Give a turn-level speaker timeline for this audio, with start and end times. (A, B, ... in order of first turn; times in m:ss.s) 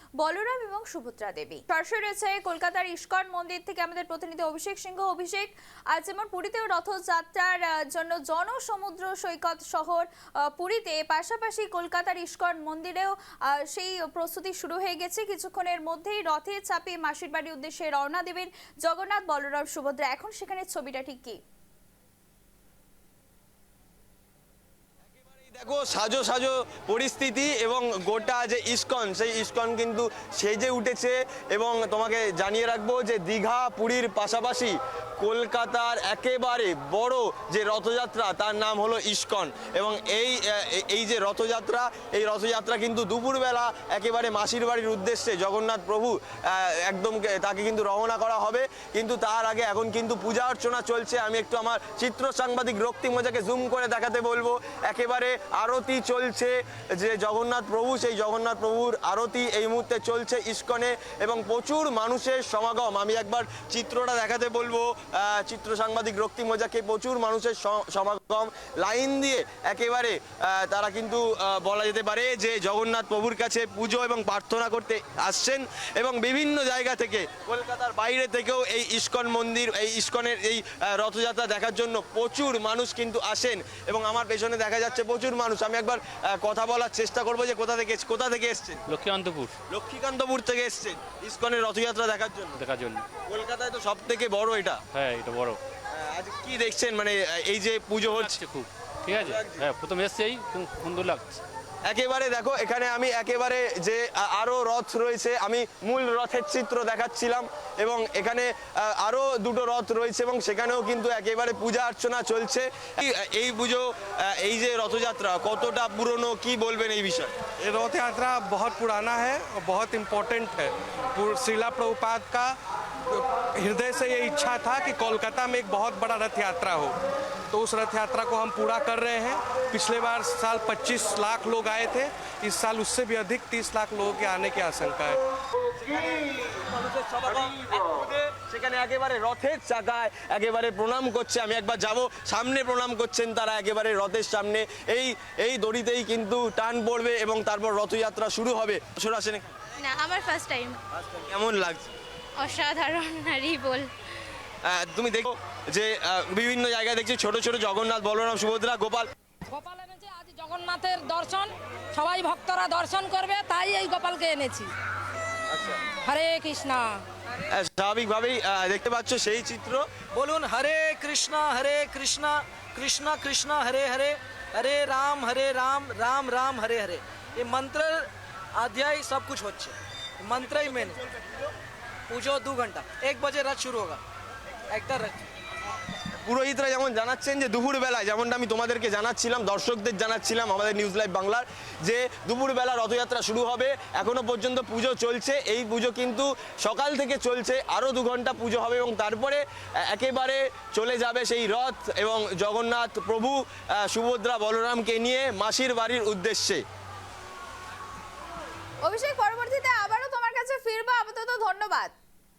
0:00.2-0:21.4 A
0:25.2-1:28.8 B
1:28.9-1:29.5 C
1:29.7-1:32.6 B
1:32.6-1:33.0 C
1:33.3-1:34.8 B
1:34.9-1:35.6 C
1:35.9-1:38.4 B
1:38.1-1:41.4 C
1:39.1-1:39.7 B
1:41.8-1:57.3 B
1:57.6-2:02.6 D
2:03.1-2:06.9 D
2:07.5-2:15.2 D
2:15.7-2:29.6 B
2:29.8-2:30.8 E
2:31.0-2:31.9 B
2:32.4-2:33.9 E
2:34.6-2:39.1 B
2:39.5-2:44.7 F
2:45.5-2:45.8 B
2:45.9-2:47.0 F
2:47.4-2:49.9 B
2:50.1-3:01.0 G
3:02.1-3:04.0 G
3:04.7-3:05.3 G
3:06.2-3:26.6 B
3:28.8-3:31.9 A